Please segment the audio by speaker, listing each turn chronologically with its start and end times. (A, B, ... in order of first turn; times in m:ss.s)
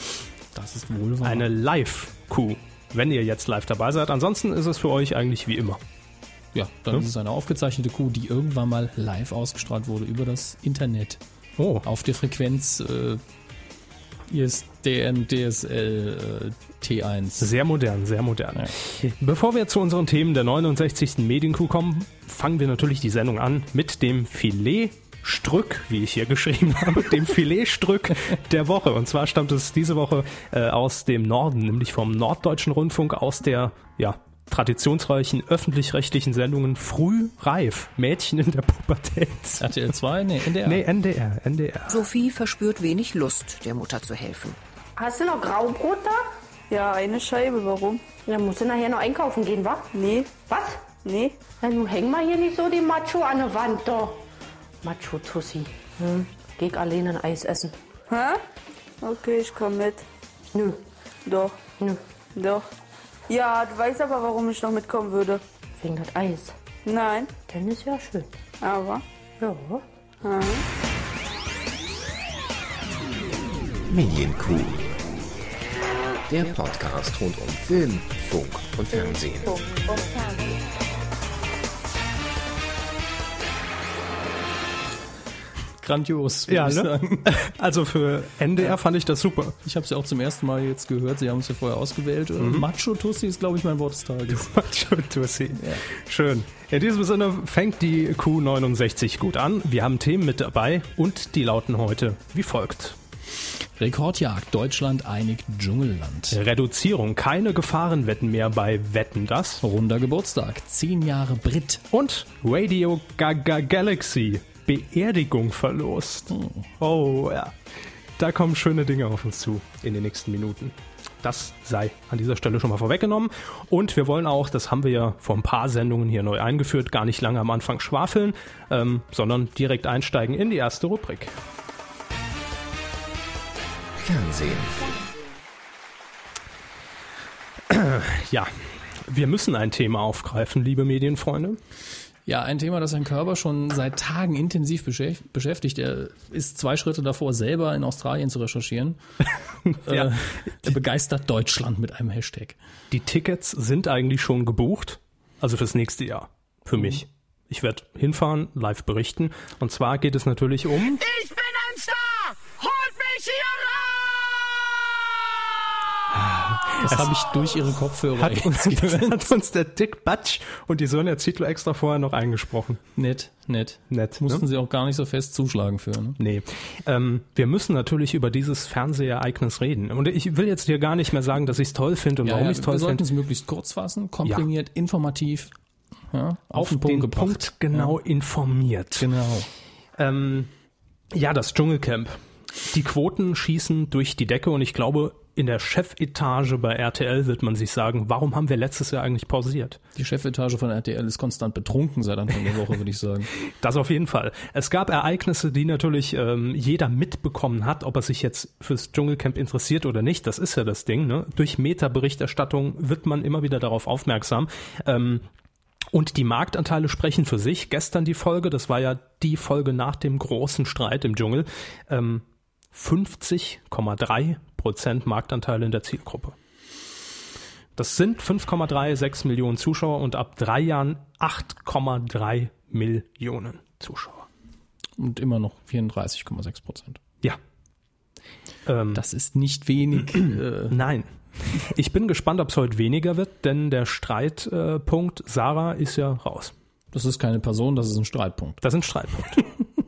0:00.5-0:01.5 A
0:01.2-0:05.8 B
0:06.5-0:11.2 A
0:11.6-0:11.8 B
0:11.8-0:13.2 A
0:14.3-0:17.5 A
0:17.4-0:39.7 B
0:39.6-0:40.9 A
0:40.6-0:42.0 B
0:41.9-0:44.6 C
0:45.0-0:46.2 D
0:46.7-0:48.0 E
0:48.3-0:49.9 D
0:49.9-0:50.3 E
0:50.5-0:50.8 D
0:51.0-0:51.4 E
0:51.6-0:54.2 D
0:54.8-0:57.8 D
0:58.1-0:58.4 E
0:59.0-1:00.0 E
1:00.5-1:00.8 D
1:01.3-1:01.6 E
1:02.4-1:02.6 E
1:03.3-1:05.4 E
1:05.8-1:06.6 D
1:06.8-1:07.3 E
1:07.5-1:08.3 D
1:08.6-1:09.0 E
1:09.4-1:09.8 D
1:10.2-1:10.6 E
1:13.9-1:15.0 F
1:16.3-1:19.7 F
1:25.8-1:27.3 A
1:26.5-1:29.6 B
1:29.6-1:34.5 A
1:32.4-1:32.7 B
1:34.3-1:43.0 B
1:35.6-1:35.8 A
1:43.8-1:46.4 A
1:46.3-1:49.6 B
1:49.6-1:51.8 A
1:51.9-1:57.5 B
1:56.3-1:56.7 A
1:58.2-2:11.4 B
2:14.0-2:15.1 F
2:17.7-2:18.5 B
2:19.1-2:21.6 B
2:22.3-2:29.0 A
2:29.7-2:30.7 B
2:29.8-2:32.6 A
2:32.9-2:41.0 B
2:41.0-2:44.1 G
2:46.1-2:47.1 B
2:46.8-2:49.3 A
2:48.1-2:52.8 B
2:53.0-2:56.2 A
2:53.9-2:54.4 B
2:56.2-3:03.1 B
3:02.2-3:05.5 A
3:06.1-3:08.0 A
3:06.5-3:09.1 B
3:09.0-3:09.5 A
3:10.0-3:10.5 B
3:11.1-3:19.8 B
3:20.0-3:23.3 A
3:23.4-3:35.3 B
3:35.9-3:46.4 B
3:47.8-3:54.3 B
3:55.0-3:57.0 A
3:58.7-3:59.0 B
3:58.9-4:00.8 A
4:00.7-4:06.5 B
4:06.9-4:08.6 A
4:08.6-4:09.5 B